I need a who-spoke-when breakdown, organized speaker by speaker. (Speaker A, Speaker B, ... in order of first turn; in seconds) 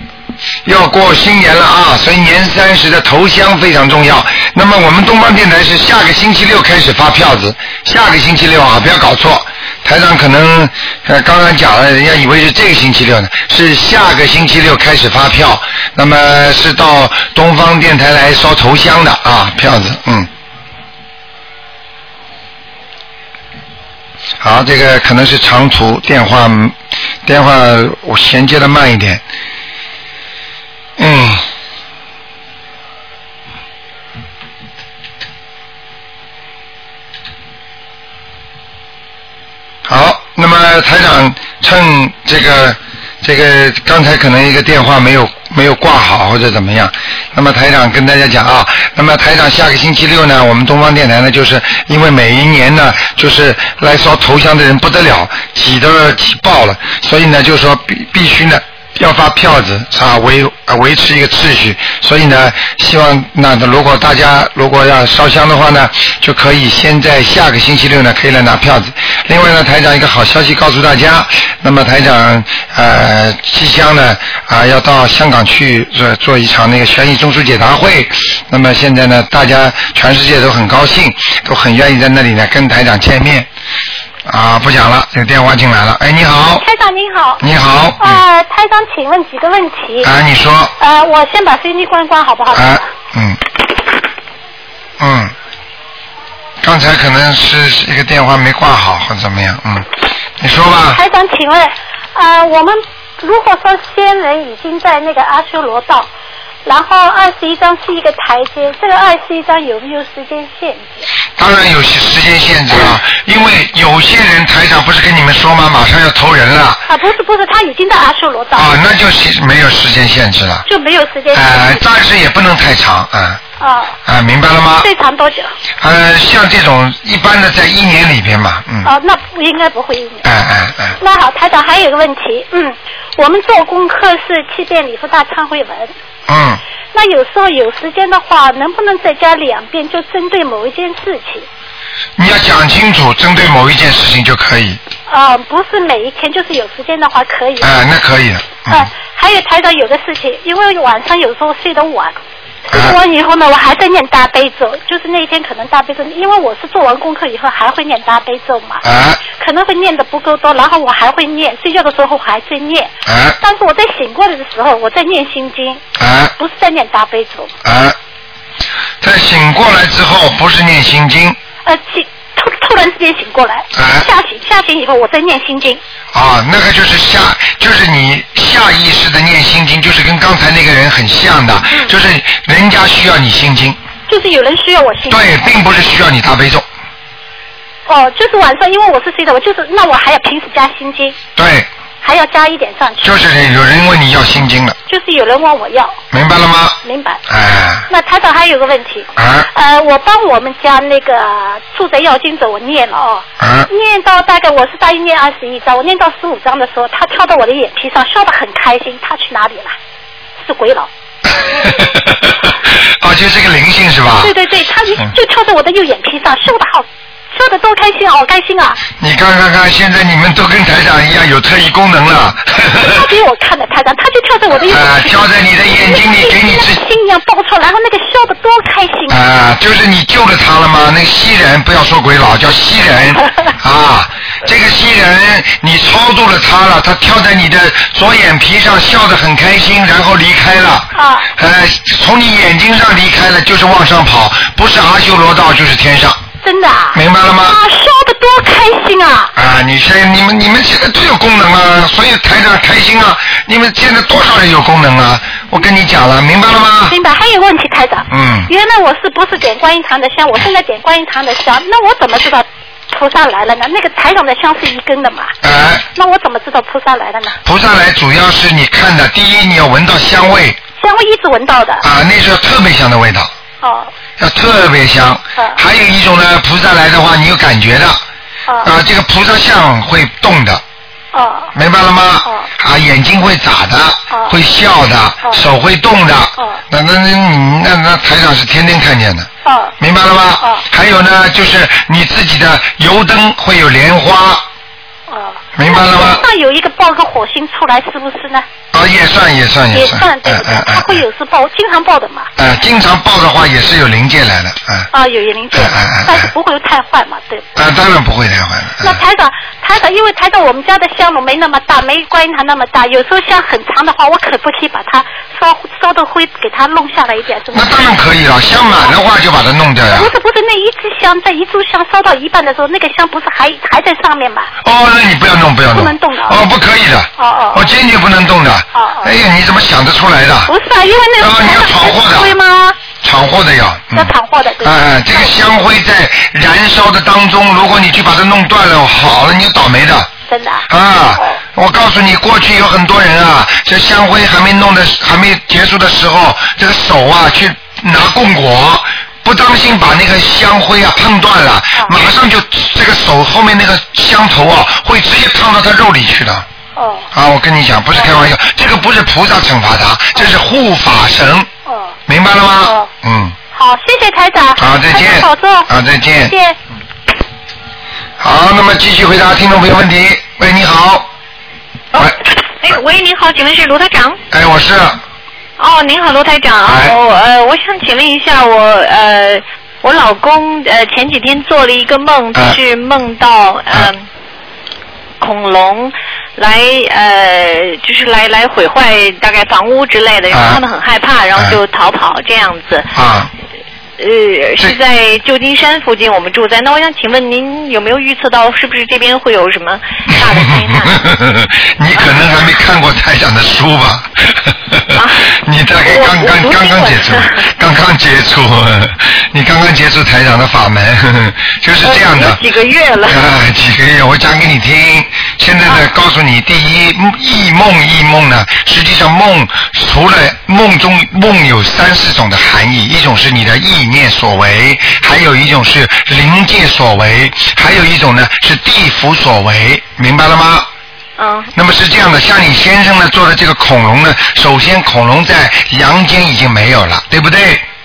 Speaker A: 0.6-20.3, 24.4-29.2, 31.0-31.4, 39.9-83.5, 84.3-86.7, 87.4-88.2, 90.0-90.7, 92.5-93.4, 95.0-95.3, 96.6-101.0, 111.4-116.8, 118.5-120.7, 121.3-123.4, 124.0-124.9, 125.8-128.9, 130.2-131.0, 136.3-136.6, 142.2-144.8, 147.6-148.9, 152.7-153.0, 158.8-159.2, 163.1-163.4, 166.0-166.3, 167.6-168.0, 169.0-171.4, 173.7-174.1, 176.1-183.8, 185.1-186.6, 191.4-191.7, 193.0-194.8, 196.1-197.9, 199.2-199.5, 203.4-203.7, 211.3-214.3, 219.0-223.1, 224.7-226.8, 229.1-246.2, 246.9-247.6, 249.3-257.0, 258.1-258.5, 265.4-265.9, 267.4-270.6, 271.8-273.3, 274.2-278.0, 278.6-280.6, 281.6-289.3, 289.8-294.4, 295.6-296.3, 298.7-301.1, 302.4-304.9, 305.5-306.3, 307.6-309.0, 317.5-320.1, 324.6-330.5, 331.2-332.3, 333.0-340.1, 340.7-356.5, 357.1-361.5, 362.1-363.4, 364.6-366.3, 368.2-371.1, 374.3-375.0, 376.6-376.9, 390.3-390.6, 392.9-393.3, 400.1-412.4, 413.1-430.7, 431.6-437.6
Speaker B: 86.6-87.4, 88.0-90.1, 90.8-92.8, 100.9-106.1, 106.7-111.0, 116.9-118.8, 120.7-121.8, 123.6-124.0, 124.8-125.5, 128.8-130.3, 131.0-135.9, 136.9-141.5, 145.1-147.7, 148.7-152.1, 152.7-165.8, 166.4-167.5, 171.6-175.8, 184.1-185.3, 187.9-191.2, 192.0-193.2, 194.9-196.0, 196.8-197.2, 197.9-209.7, 210.4-210.9, 214.2-218.8, 222.7-225.2, 225.8-229.2, 233.2-233.5, 240.9-241.3, 246.4-249.3, 256.9-265.3, 265.9-267.4, 270.8-271.8, 273.6-273.9, 281.1-281.5, 284.1-284.4, 289.4-289.7, 290.4-290.6, 295.1-298.4, 299.7-302.3, 304.9-307.5, 308.8-317.9, 319.9-324.5, 325.7-326.4, 327.2-327.7, 328.7-329.1, 330.5-332.8, 333.9-335.4, 340.3-341.4, 356.8-357.1, 357.9-358.2, 361.7-361.9, 362.6-362.9, 363.5-366.6
Speaker C: 371.9-374.2, 375.6-384.1, 385.2-392.9, 394.0-401.0, 401.9-402.3, 404.9-405.3, 405.8-407.4, 411.8-413.2, 431.2-431.5